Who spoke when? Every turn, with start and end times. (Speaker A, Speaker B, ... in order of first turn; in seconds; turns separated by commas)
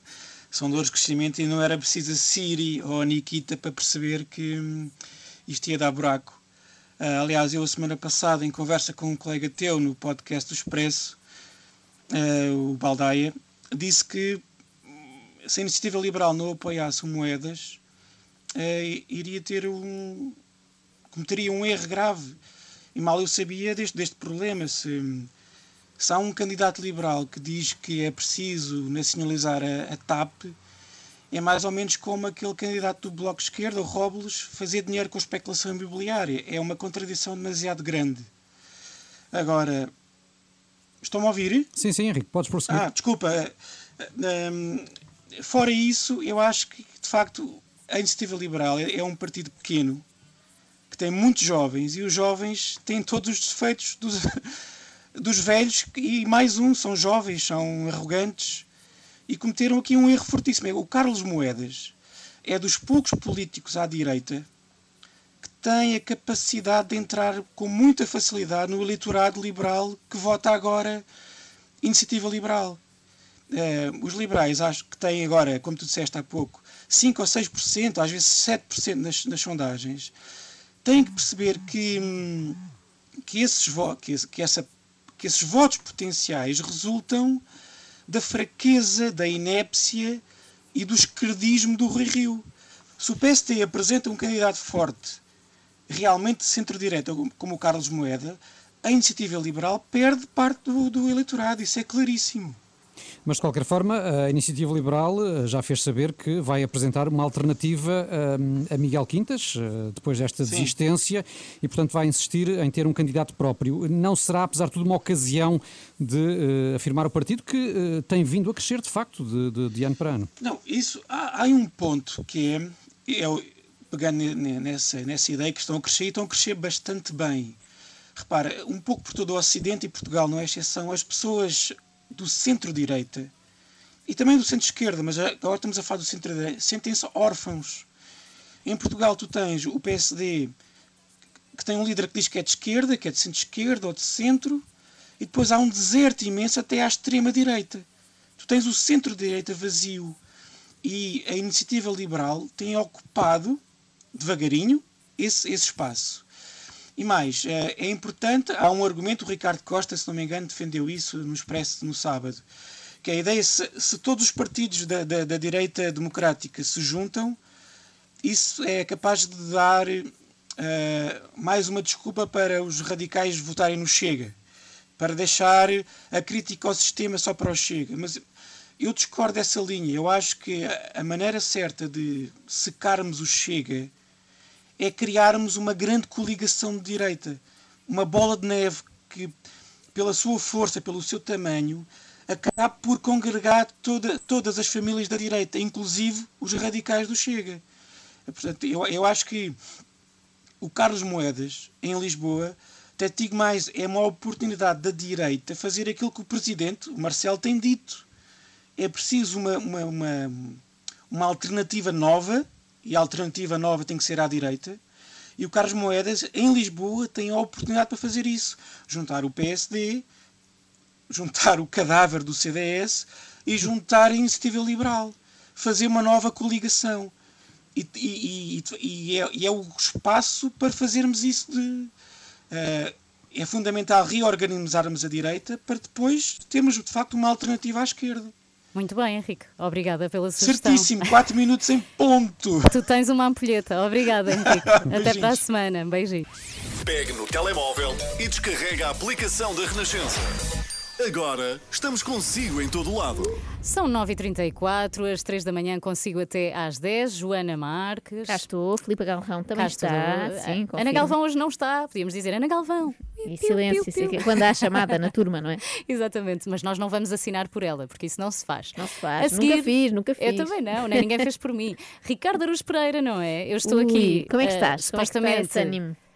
Speaker A: 0.5-4.9, Speaker A: 5.5-6.4, Speaker A: 7.0-11.2, Speaker A: 12.1-17.8, Speaker A: 18.6-20.4, Speaker A: 21.1-22.4, Speaker A: 22.9-25.3, Speaker A: 26.0-30.6, Speaker A: 31.3-38.3, Speaker A: 39.3-39.9, Speaker A: 41.0-41.7, Speaker B: 41.8-42.9, Speaker A: 42.7-50.0, Speaker A: 50.9-54.4, Speaker A: 55.2-58.7, Speaker A: 59.3-61.9, Speaker A: 62.5-64.5, Speaker A: 65.4-71.0, Speaker A: 71.8-72.8, Speaker A: 73.5-80.1, Speaker A: 80.8-82.6, Speaker A: 83.2-87.4, Speaker A: 88.1-90.2, Speaker A: 90.7-92.5, Speaker A: 93.0-95.2, Speaker A: 95.9-102.6, Speaker B: 103.2-120.3, Speaker A: 110.5-110.7, Speaker A: 120.4-127.6, Speaker A: 128.2-133.3, Speaker A: 134.1-137.9, Speaker A: 138.7-140.5, Speaker A: 141.6-144.6, Speaker A: 145.2-147.8, Speaker A: 148.4-150.2, Speaker A: 150.8-153.6, Speaker A: 154.1-156.2, Speaker A: 157.0-162.4, Speaker A: 163.0-167.4, Speaker A: 168.2-174.3, Speaker A: 175.0-178.2, Speaker A: 178.8-183.9, Speaker A: 184.8-189.3, Speaker A: 189.9-197.6, Speaker A: 198.3-199.6, Speaker A: 200.6-208.0, Speaker A: 208.8-214.8, Speaker A: 215.4-220.1, Speaker A: 221.1-227.1, Speaker A: 227.8-231.9, Speaker A: 232.5-238.3, Speaker C: 238.7-241.1, Speaker A: 240.4-242.7, Speaker C: 242.7-246.2, Speaker A: 244.3-245.4, Speaker D: 246.8-250.3, Speaker D: 251.0-253.4, Speaker C: 253.6-258.5, Speaker E: 258.3-261.1, Speaker C: 259.6-264.6, Speaker E: 263.3-265.6, Speaker C: 265.8-275.8, Speaker E: 268.8-271.1, Speaker E: 273.7-276.0